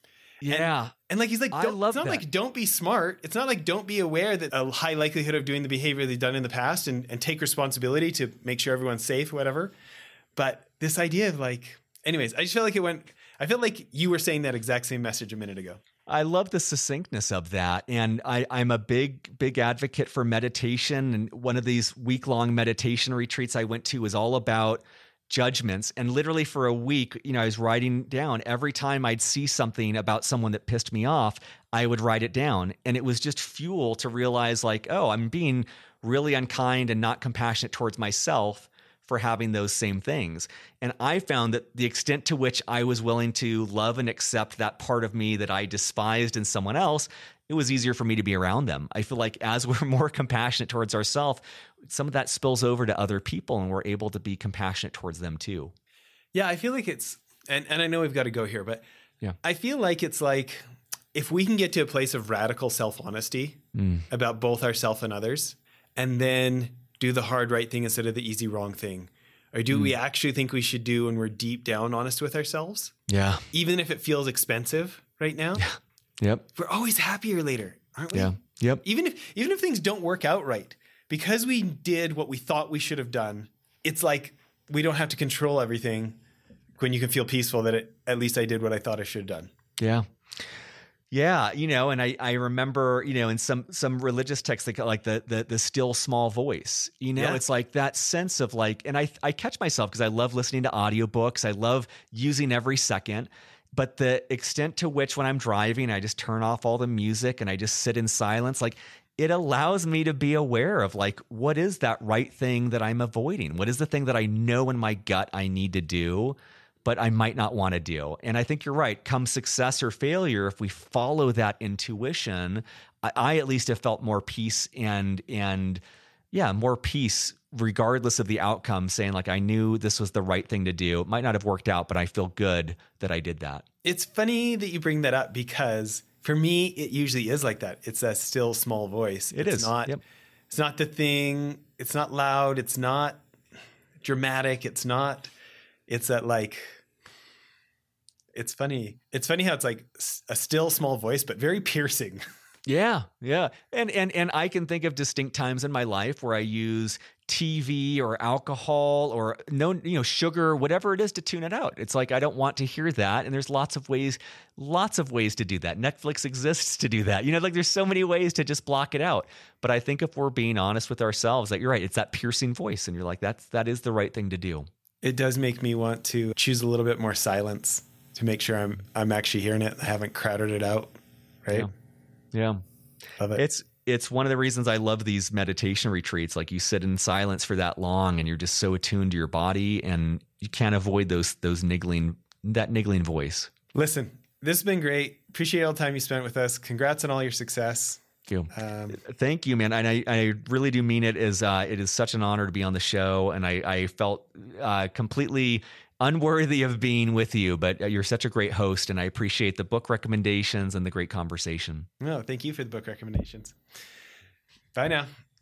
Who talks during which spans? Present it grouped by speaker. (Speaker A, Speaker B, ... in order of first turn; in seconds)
Speaker A: 0.4-0.9, 1.5-2.2, 16.1-55.7, 63.7-64.1, 73.1-73.4, 75.6-76.5, 78.1-78.8, 89.8-90.1, 91.1-125.8, 126.3-133.7, 139.3-140.0, 152.7-174.7, 182.3-182.6, 183.3-193.5, 198.3-211.9
Speaker B: 0.5-9.7, 10.3-15.8, 56.3-58.8, 59.4-60.6, 61.1-73.0, 73.5-75.7, 76.5-86.2, 86.8-89.5, 97.2-97.4, 133.8-140.0, 140.5-143.2, 144.0-145.3, 145.9-146.8, 148.3-152.2, 175.0-181.7, 193.8-199.0, 212.0-213.6, 214.7-215.1